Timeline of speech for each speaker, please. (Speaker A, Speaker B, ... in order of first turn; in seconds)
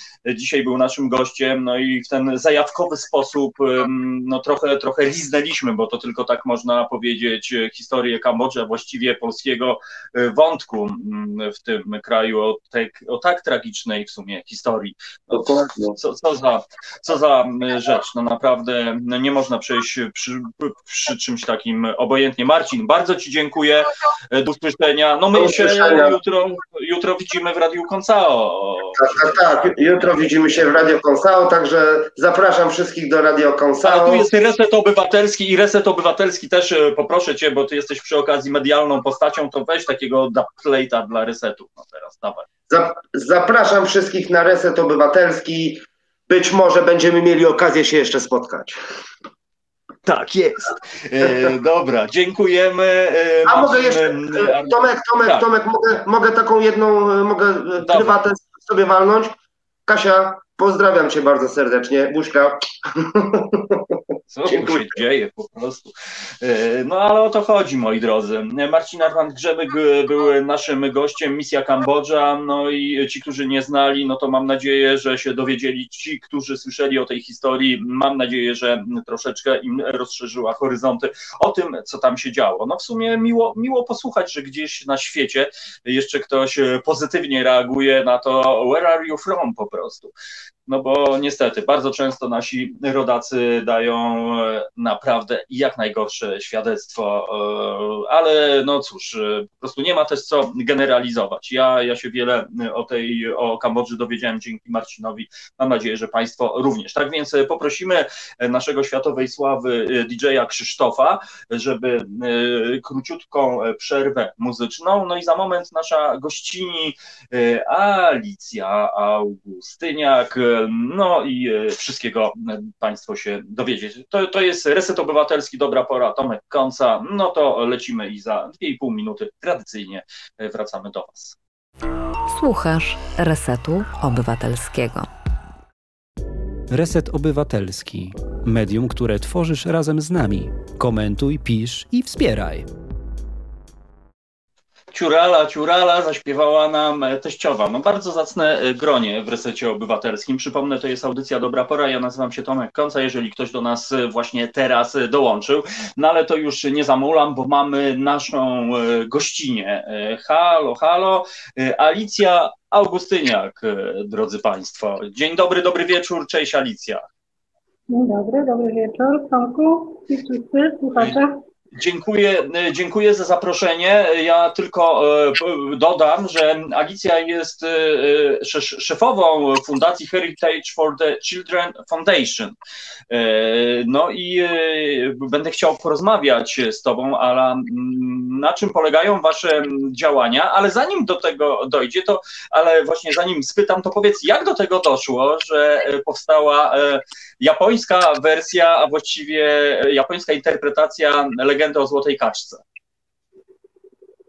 Speaker A: 0.2-30.2, 33.8-42.5, 50.0-55.5, 57.8-58.2, 64.3-90.1, 90.7-131.4, 144.9-167.1, 171.7-182.6, 183.1-202.6
Speaker B: 15.3-16.0, 25.3-26.2, 29.0-34.2, 42.7-48.8, 51.2-51.5, 53.5-59.4, 59.9-64.0, 64.5-64.9
Speaker C: 132.3-135.1
Speaker D: 136.7-142.7
Speaker E: 167.9-171.3